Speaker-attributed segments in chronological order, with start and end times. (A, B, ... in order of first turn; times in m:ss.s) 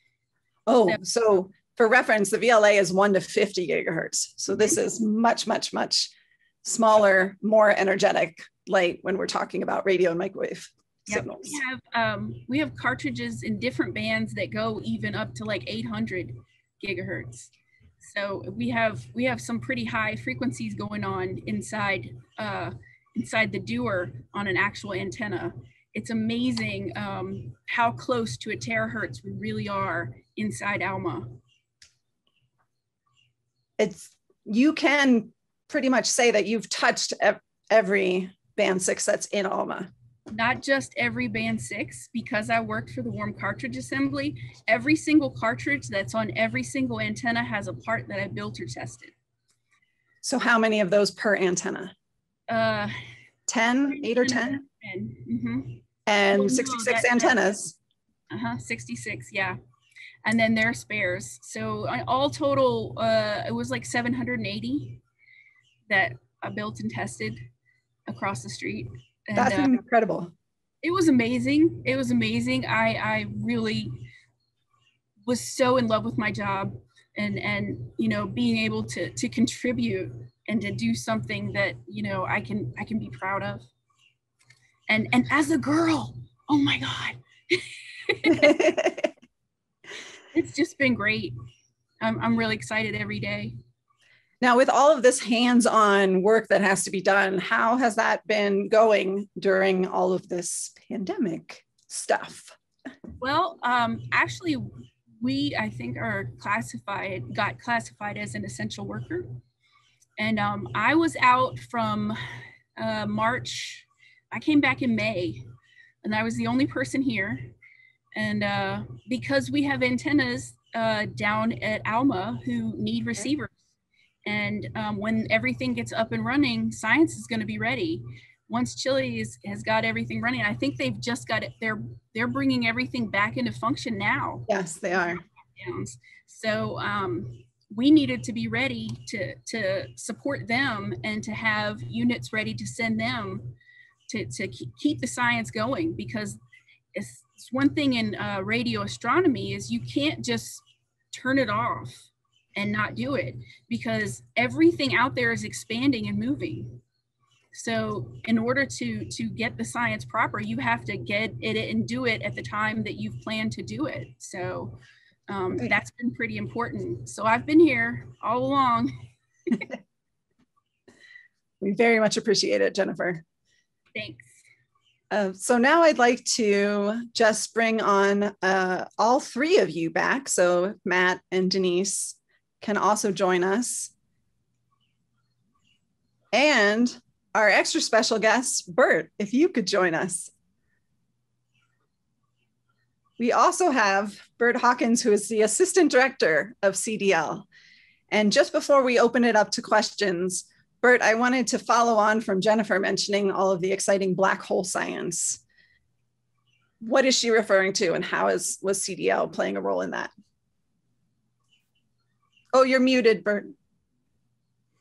0:00.7-0:06.1 A
0:04.5-0:04.8 B
0:06.6-0:11.6 A
0:11.1-0:31.4 B
0:33.8-0:39.9 A
0:40.3-0:49.1 B
0:50.2-0:51.9 A
0:52.5-0:53.0 B
0:53.5-0:54.6 A
0:53.8-0:57.6 B
0:56.1-0:57.7 A
0:58.3-0:59.6 B
1:00.2-1:05.0 B
1:05.9-1:07.4 B
1:08.1-1:09.8 B
1:09.4-1:10.3 A
1:10.8-1:14.1 B
1:15.3-1:23.6 B
1:24.9-1:28.7 B
1:28.4-1:29.1 A
1:30.3-1:31.3 B
1:32.0-1:33.6 B
1:34.4-1:42.6 A
1:43.2-1:44.7 B
1:45.2-1:49.4 B
1:50.2-1:52.2 B
1:52.8-1:55.4 B
1:56.0-1:57.6 B
1:58.1-2:03.5 B
2:04.2-2:23.6 B
2:14.5-2:15.2 A
2:24.1-2:26.4 B
2:26.9-2:36.8 B
2:37.5-2:48.9 B
2:51.6-2:53.2 A
2:54.0-2:54.3 B
2:55.1-3:03.9 A
3:06.3-3:10.3 A
3:13.2-3:17.4 A
3:18.1-3:25.4 A
3:26.8-3:30.1 A
3:32.5-3:33.5 A